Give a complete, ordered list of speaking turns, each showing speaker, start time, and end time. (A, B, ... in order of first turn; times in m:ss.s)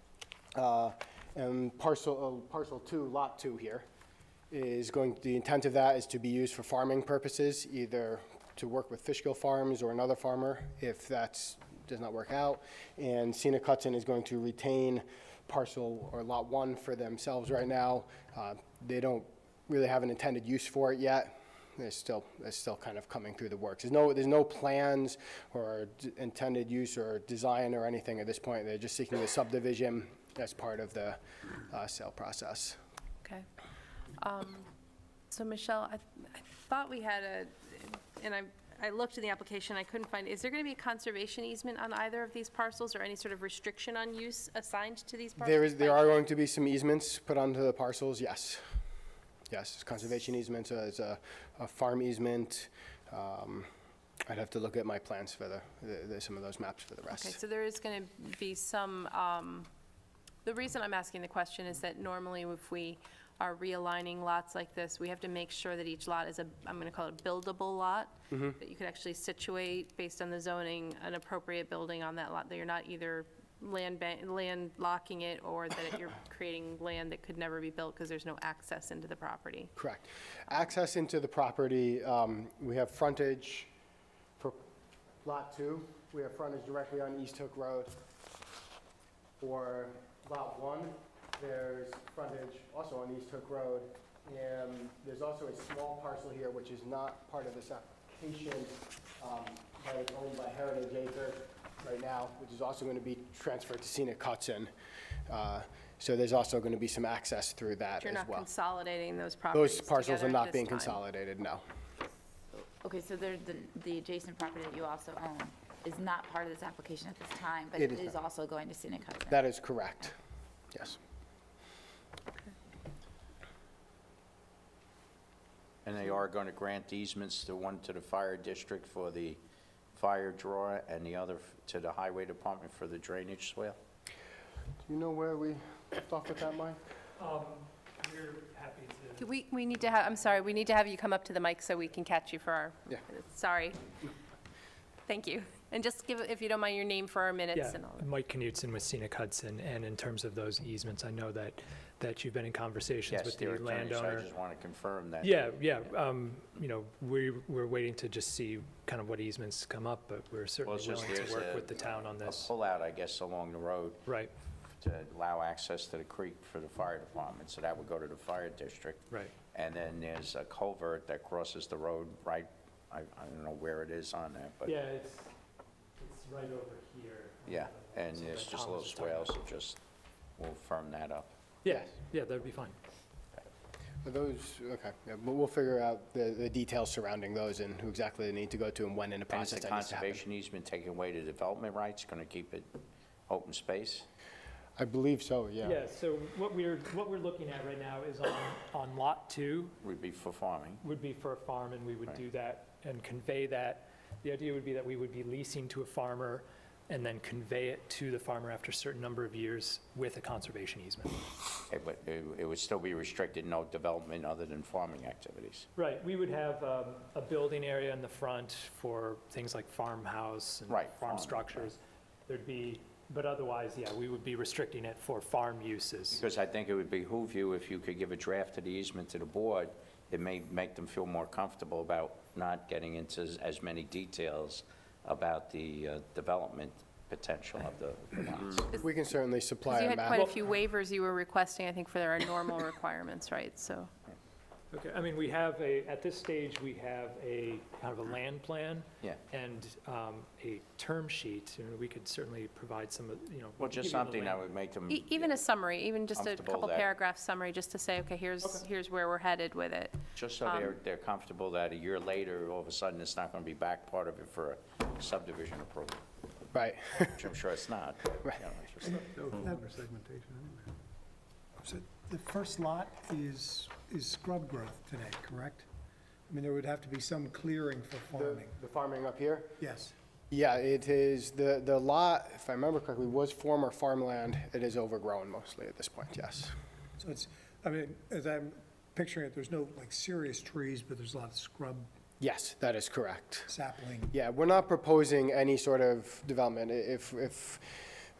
0:00.5-0:03.8 A
0:04.5-0:32.8 A
0:34.2-0:34.7 B
0:35.3-0:46.3 B
0:45.4-0:48.6 A
0:49.5-0:53.7 A
0:54.3-0:57.4 A
0:57.1-0:59.7 B
1:00.4-1:19.7 B
1:08.3-1:08.6 A
1:19.8-1:23.7 A
1:25.2-1:27.9 A
1:29.4-1:44.7 A
1:45.3-1:48.5 A
1:48.0-1:51.0 B
1:49.5-1:51.6 A
1:52.5-1:59.5 C
1:57.7-1:58.2 A
1:59.3-2:00.2 A
2:00.7-2:01.0 A
2:05.8-2:09.4 D
2:09.9-2:13.8 D
2:14.8-2:16.8 A
2:17.2-2:19.3 E
2:19.2-2:23.9 B
2:25.0-2:28.1 B
2:27.5-2:34.3 E
2:33.1-2:35.9 D
2:35.2-2:42.5 E
2:40.6-2:44.1 D
2:44.0-2:44.3 E
2:44.8-2:54.8 D
2:54.6-2:55.3 E
2:56.0-2:59.3 E
2:57.4-2:59.8 D
3:00.4-3:01.3 D
3:01.6-3:02.8 E
3:04.0-3:10.2 A
3:09.3-3:12.7 D
3:13.3-3:14.1 D
3:14.8-3:15.8 A
3:15.6-3:19.8 E
3:19.8-3:20.8 D
3:20.8-3:31.2 E
3:31.7-3:35.7 D
3:35.8-3:46.2 E
3:40.7-3:41.7 D
3:46.1-3:58.7 D
3:58.8-4:00.2 A
3:59.6-4:03.9 B
4:04.7-4:14.4 E
4:13.6-4:15.5 D
4:14.9-4:20.7 B
4:16.1-4:16.9 D
4:20.1-4:26.0 D
4:26.5-4:27.2 A
4:27.0-4:29.3 D
4:28.8-4:29.8 F
4:31.6-4:35.7 F
4:36.3-4:38.6 F
4:38.1-4:39.5 A
4:39.6-4:39.9 F
4:40.3-4:46.5 A
4:47.0-4:51.9 F
4:52.2-4:53.5 A
4:53.5-4:54.1 F
4:54.1-4:57.9 A